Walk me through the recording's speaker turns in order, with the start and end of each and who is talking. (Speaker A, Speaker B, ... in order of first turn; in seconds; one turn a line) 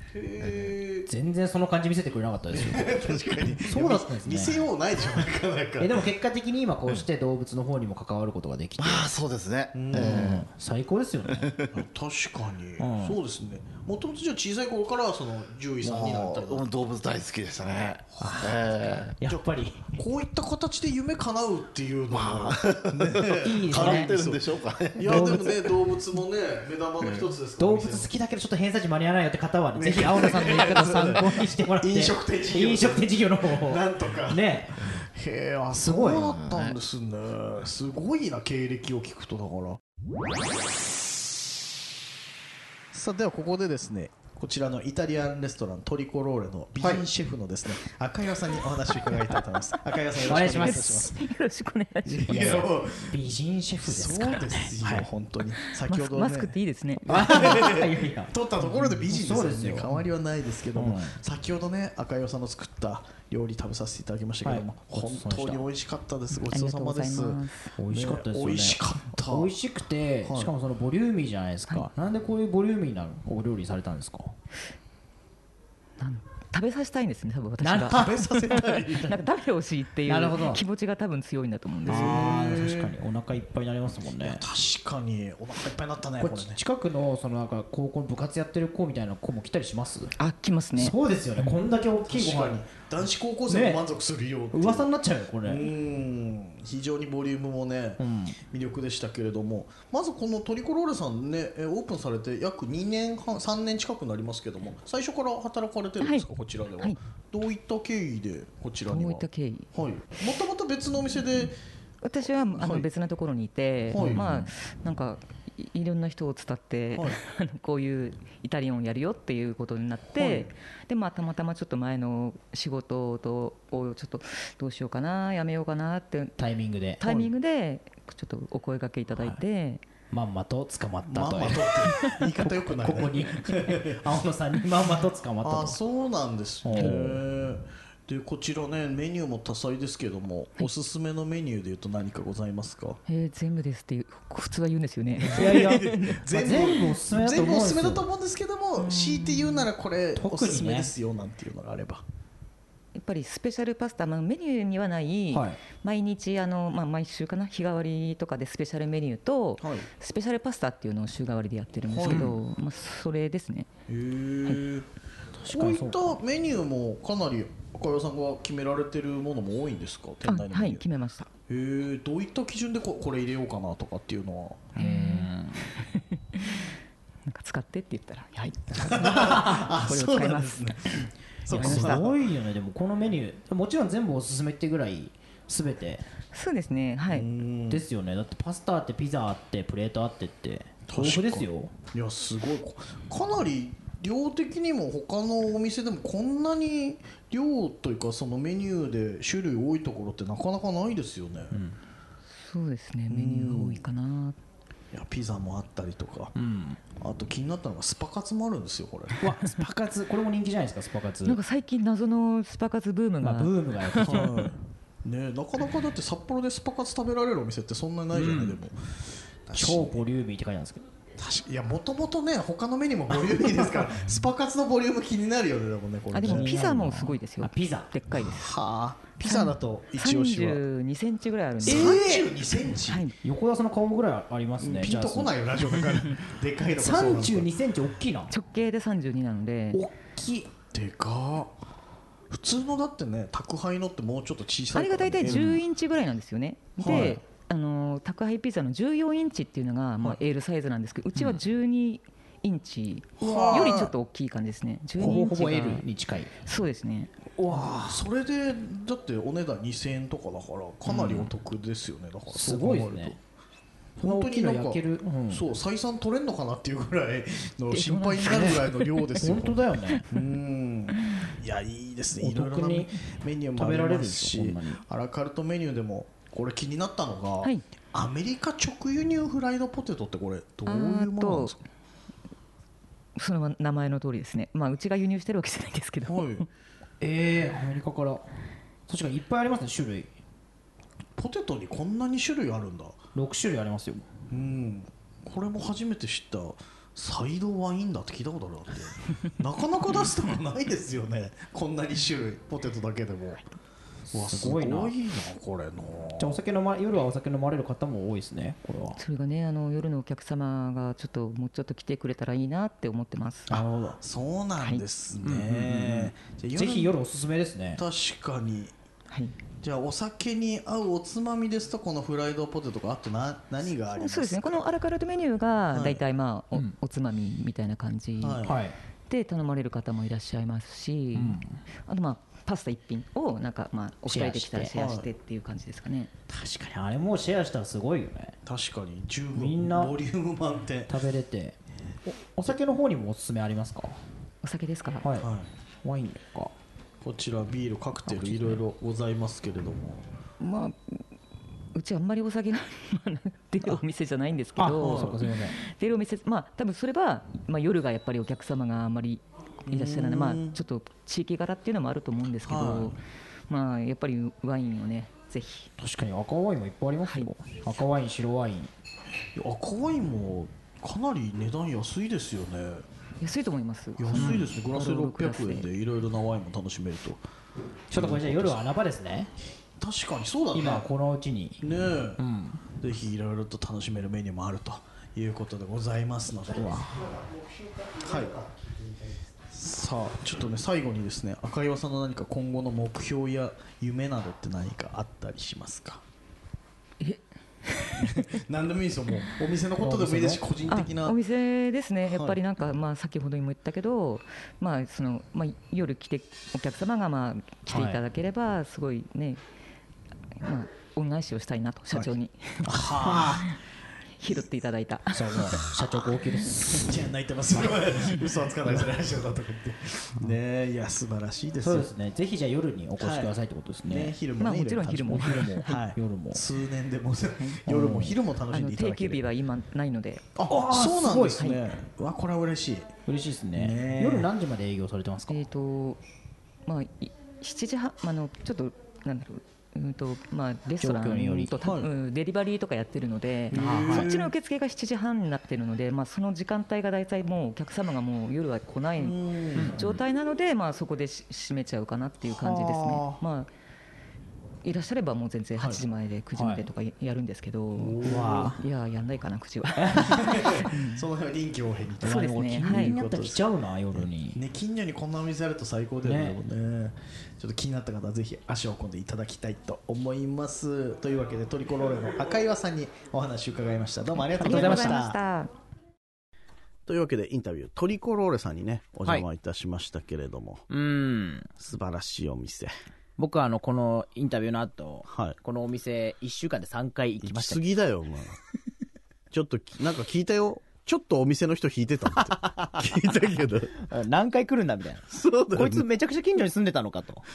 Speaker A: 0.1-1.1
Speaker B: 0.4-0.7
Speaker C: 1.1-4.7
Speaker A: 2.5-6.1
Speaker C: 5.8-9.1
Speaker B: 8.8-10.4
Speaker A: 9.7-10.4
Speaker C: 9.9-11.6
Speaker B: 11.3-11.7
Speaker A: 11.7-16.6
Speaker C: 12.8-13.2
Speaker B: 15.8-19.1
Speaker C: 18.2-18.6
Speaker C: 19.2-19.9
Speaker A: 19.2-24.4
Speaker B: 22.1-25.7
Speaker C: 23.4-24.2
Speaker A: 25.0-28.1
Speaker C: 25.0-25.6
Speaker B: 27.0-27.3
Speaker C: 27.6-34.8
Speaker A: 29.7-39.8
Speaker C: 35.8-36.3
Speaker B: 36.1-36.8
Speaker A: 42.9-51.1
Speaker C: 50.1-51.1
Speaker D: 50.4-52.7
Speaker A: 52.0-53.2
Speaker C: 52.2-55.1
Speaker A: 53.8-69.5
Speaker D: 55.8-57.2
Speaker C: 57.1-58.3
Speaker C: 59.1-60.0
Speaker C: 60.7-61.2
Speaker C: 64.4-65.6
Speaker D: 66.5-67.6
Speaker C: 67.8-74.3
Speaker A: 70.2-70.5
Speaker D: 76.0-82.3
Speaker C: 77.6-78.4
Speaker A: 77.9-79.2
Speaker C: 80.1-80.6
Speaker A: 81.8-83.0
Speaker C: 81.8-84.4
Speaker A: 84.1-86.6
Speaker C: 86.2-90.1
Speaker D: 90.2-91.0
Speaker C: 90.7-92.6
Speaker A: 91.4-94.9
Speaker C: 93.5-93.8
Speaker C: 94.5-95.7
Speaker A: 95.4-111.6
Speaker C: 98.0-98.4
Speaker D: 106.0-106.3
Speaker D: 108.9-109.7
Speaker D: 112.0-126.4
Speaker A: 112.5-112.9
Speaker A: 113.9-114.5
Speaker A: 120.2-120.5
Speaker C: 126.4-127.1
Speaker D: 127.0-129.9
Speaker C: 130.1-135.8
Speaker A: 131.1-134.0
Speaker A: 135.4-143.0
Speaker C: 136.6-137.2
Speaker D: 143.1-146.2
Speaker A: 145.2-152.0
Speaker C: 145.3-148.0
Speaker D: 148.8-149.7
Speaker C: 150.2-150.9
Speaker D: 152.9-163.7
Speaker C: 155.3-155.6
Speaker A: 159.6-159.9
Speaker A: 161.9-162.3
Speaker A: 163.9-164.9
Speaker C: 165.4-166.2
Speaker A: 165.4-170.8
Speaker D: 170.2-171.3
Speaker A: 171.5-174.7
Speaker D: 174.8-176.7
Speaker C: 174.8-175.3
Speaker D: 177.2-182.0
Speaker A: 178.8-182.2
Speaker C: 179.2-179.4
Speaker C: 181.5-186.1
Speaker D: 186.3-187.3
Speaker A: 187.1-187.8
Speaker C: 187.7-191.7
Speaker A: 190.9-201.6
Speaker D: 202.3-204.4
Speaker A: 203.1-203.8
Speaker A: 204.9-206.3
Speaker C: 206.4-206.8
Speaker A: 206.9-209.3
Speaker C: 209.2-211.4
Speaker D: 211.2-214.4
Speaker C: 213.2-214.4
Speaker A: 214.0-218.8
Speaker C: 218.1-218.5
Speaker A: 219.5-220.0
Speaker C: 219.5-220.8
Speaker A: 221.2-226.7
Speaker D: 226.1-228.5
Speaker C: 226.2-227.9
Speaker A: 228.3-230.6
Speaker D: 229.2-232.1
Speaker A: 231.6-233.1
Speaker C: 231.6-232.3
Speaker D: 232.8-233.2
Speaker C: 233.2-235.3
Speaker A: 234.6-237.5
Speaker C: 236.8-238.3
Speaker D: 238.3-239.8
Speaker C: 239.7-240.5
Speaker A: 240.6-241.5
Speaker A: 242.3-245.6
Speaker D: 244.7-255.9
Speaker A: 246.8-247.2
Speaker C: 246.8-247.2
Speaker A: 253.2-253.9
Speaker C: 253.3-253.8
Speaker C: 255.0-256.3
Speaker D: 256.4-257.1
Speaker C: 257.3-258.0
Speaker A: 257.8-263.2
Speaker C: 260.9-261.3
Speaker C: 262.3-263.1
Speaker C: 264.0-265.4
Speaker A: 264.0-281.6
Speaker D: 267.7-269.1
Speaker C: 268.2-268.6
Speaker C: 269.2-270.1
Speaker C: 272.1-273.0
Speaker C: 273.5-274.8
Speaker D: 280.7-281.6
Speaker D: 283.2-286.5
Speaker A: 286.1-286.4
Speaker C: 287.0-288.2
Speaker C: 288.9-290.1
Speaker A: 291.1-293.0
Speaker C: 293.1-294.1
Speaker A: 294.3-303.4
Speaker C: 304.1-304.9
Speaker A: 304.1-306.4
Speaker C: 306.2-309.0
Speaker D: 309.0-313.6
Speaker C: 313.5-314.0
Speaker A: 313.5-317.0
Speaker C: 315.2-317.8
Speaker A: 317.8-318.7
Speaker A: 319.6-324.7
Speaker D: 323.9-328.5
Speaker A: 325.7-326.0
Speaker A: 328.2-328.5
Speaker C: 328.4-328.8
Speaker D: 329.1-336.1
Speaker C: 331.1-331.6
Speaker C: 334.1-334.7
Speaker A: 334.8-335.1
Speaker C: 336.3-338.4
Speaker A: 338.4-340.9
Speaker C: 339.3-339.9
Speaker C: 340.9-344.0
Speaker D: 344.4-345.1
Speaker C: 345.0-345.3
Speaker A: 345.2-345.5
Speaker C: 345.8-346.5
Speaker A: 347.0-350.0
Speaker D: 348.2-348.6
Speaker D: 350.4-351.0
Speaker D: 351.7-365.7
Speaker C: 354.6-355.6
Speaker A: 354.8-355.2
Speaker A: 359.7-360.6
Speaker A: 362.4-363.0
Speaker C: 365.8-368.7
Speaker D: 367.1-367.3
Speaker A: 369.3-372.9
Speaker D: 373.2-375.7
Speaker A: 374.0-377.2
Speaker C: 374.1-374.4
Speaker C: 377.9-379.3
Speaker A: 377.9-378.6
Speaker A: 379.8-380.9
Speaker C: 380.5-381.6
Speaker A: 381.6-382.2
Speaker C: 382.2-382.6
Speaker A: 382.8-386.8
Speaker C: 386.5-387.2
Speaker A: 388.0-388.4
Speaker A: 389.5-396.0
Speaker D: 397.0-398.1
Speaker A: 398.0-401.2
Speaker C: 399.8-400.4
Speaker D: 400.7-409.4
Speaker A: 402.1-402.4
Speaker C: 407.7-408.0
Speaker D: 410.4-412.8
Speaker C: 412.7-413.5
Speaker A: 412.7-413.4
Speaker D: 414.2-416.5
Speaker C: 415.1-417.0
Speaker A: 416.7-421.9
Speaker C: 421.6-424.2
Speaker A: 423.0-429.2
Speaker D: 424.4-425.8
Speaker C: 424.9-426.4
Speaker C: 427.7-428.2
Speaker D: 428.5-430.3
Speaker A: 430.4-432.9
Speaker C: 430.5-431.4
Speaker D: 431.4-431.6
Speaker C: 433.1-435.4
Speaker A: 433.5-434.3
Speaker D: 435.3-436.0
Speaker D: 436.6-449.2
Speaker C: 440.8-441.5
Speaker A: 441.6-441.9
Speaker C: 443.5-444.1
Speaker A: 443.5-444.3
Speaker A: 449.0-449.8
Speaker D: 449.7-453.5
Speaker C: 452.4-453.1
Speaker D: 454.6-461.1
Speaker A: 455.6-455.8
Speaker C: 456.3-456.6
Speaker A: 457.8-458.5
Speaker C: 458.0-458.6
Speaker C: 459.8-460.1
Speaker A: 460.0-475.1
Speaker C: 462.0-464.4
Speaker D: 462.0-463.0
Speaker C: 466.0-466.4
Speaker D: 474.4-475.5
Speaker C: 474.4-475.1
Speaker E: 476.9-480.6
Speaker F: 480.7-481.5
Speaker E: 481.6-482.7
Speaker F: 483.2-487.6
Speaker E: 485.1-485.4
Speaker E: 487.2-488.4
Speaker E: 489.3-493.8
Speaker F: 493.8-497.2
Speaker E: 495.1-495.9